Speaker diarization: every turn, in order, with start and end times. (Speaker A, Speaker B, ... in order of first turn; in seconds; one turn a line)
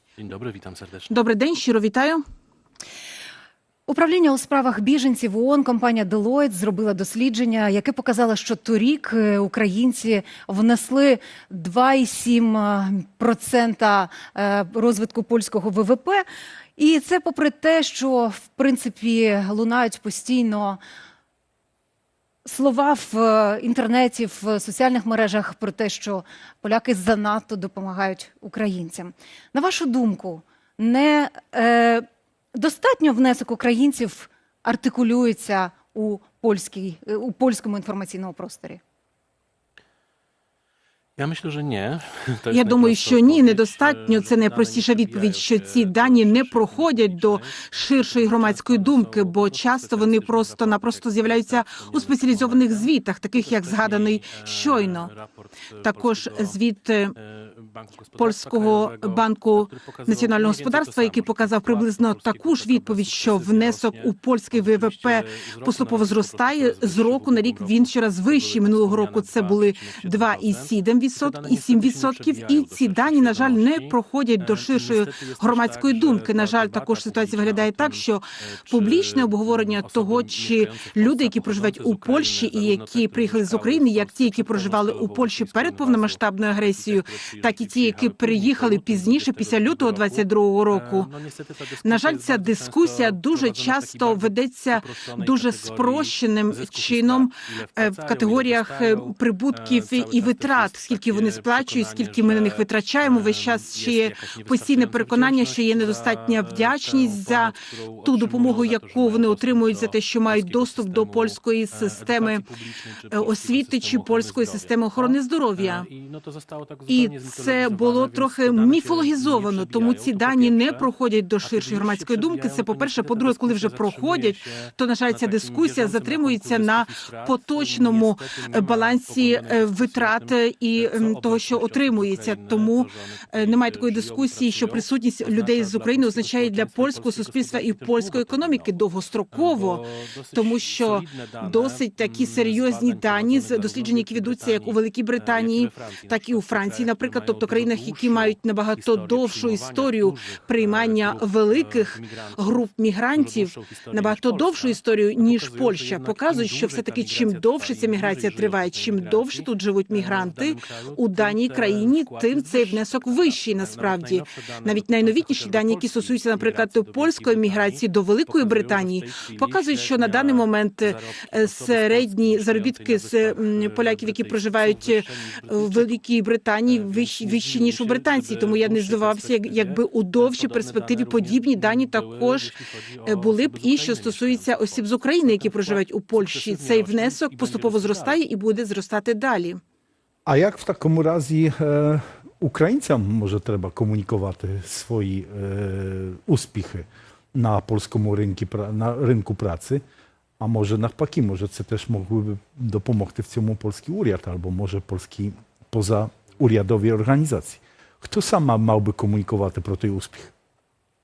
Speaker A: 0.2-1.1
Speaker B: 1.1-2.2
Speaker C: 3.9-16.2
Speaker C: 16.8-20.8
Speaker C: 22.4-38.8
Speaker A: 41.2-52.9
Speaker B: 42.5-55.1
Speaker A: 53.6-55.1
Speaker B: 55.8-57.1
Speaker A: 55.9-56.5
Speaker A: 58.2-59.1
Speaker B: 58.2-91.1
Speaker A: 60.0-67.8
Speaker A: 68.3-70.7
Speaker A: 71.3-73.9
Speaker A: 74.5-78.0
Speaker A: 78.7-86.2
Speaker A: 86.7-91.1
Speaker B: 91.8-112.5
Speaker A: 91.9-94.2
Speaker A: 95.1-97.3
Speaker A: 97.8-99.0
Speaker A: 99.6-107.5
Speaker A: 108.0-112.4
Speaker B: 113.1-115.9
Speaker A: 113.1-120.9
Speaker B: 116.9-139.8
Speaker A: 121.5-124.4
Speaker A: 125.2-130.3
Speaker A: 130.9-132.9
Speaker A: 133.4-138.7
Speaker A: 139.3-144.8
Speaker B: 140.3-182.5
Speaker A: 145.3-152.0
Speaker A: 153.2-154.8
Speaker A: 155.3-170.4
Speaker A: 171.0-176.0
Speaker A: 176.7-182.5
Speaker A: 183.0-188.2
Speaker B: 183.1-189.6
Speaker D: 190.3-199.8
Speaker D: 200.4-210.3